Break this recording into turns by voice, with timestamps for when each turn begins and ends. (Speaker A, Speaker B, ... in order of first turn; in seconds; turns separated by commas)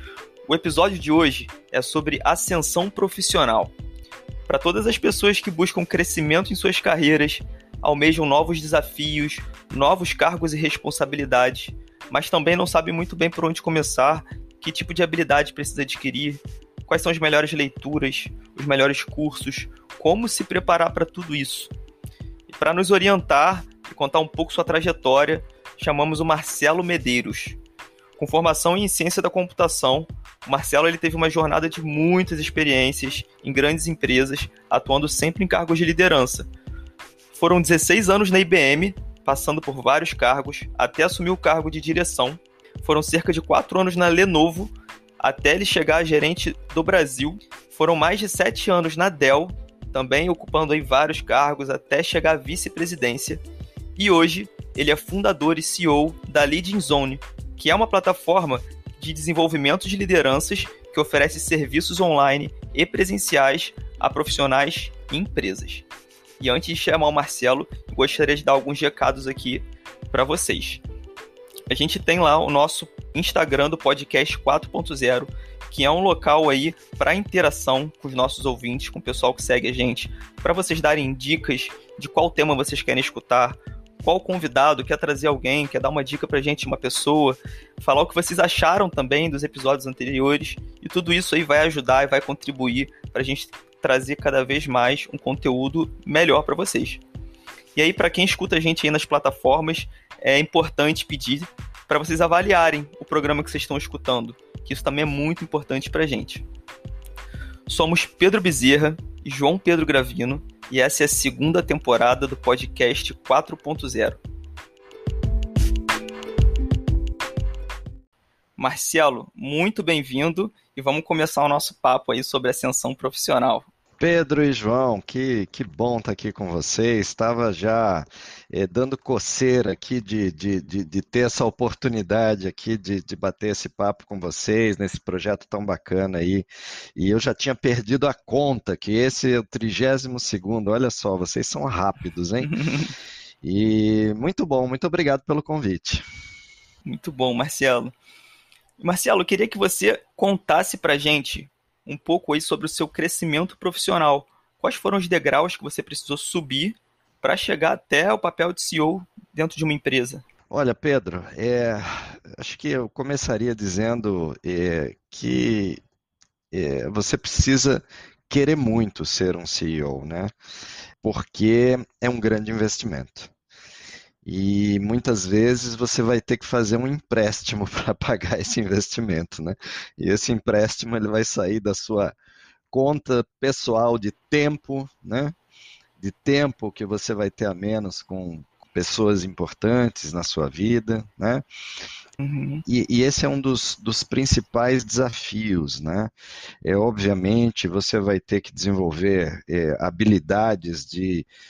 Speaker A: 0.5-3.7, Speaker A: 4.5-21.7, Speaker A: 22.5-27.6, Speaker A: 28.2-36.5, Speaker A: 37.3-53.4, Speaker A: 54.0-65.9, Speaker A: 66.4-70.8, Speaker A: 71.7-97.0, Speaker A: 97.8-106.5, Speaker A: 107.7-114.2, Speaker A: 118.6-123.7, Speaker B: 124.0-142.6, Speaker A: 142.4-142.9, Speaker B: 143.4-146.0, Speaker A: 146.9-147.9, Speaker A: 148.8-160.2, Speaker B: 160.5-165.8, Speaker B: 166.5-170.3, Speaker B: 171.0-173.3, Speaker B: 174.2-182.2, Speaker B: 182.7-185.3, Speaker B: 186.0-191.4, Speaker A: 192.2-192.6, Speaker B: 192.7-196.1, Speaker B: 196.6-201.3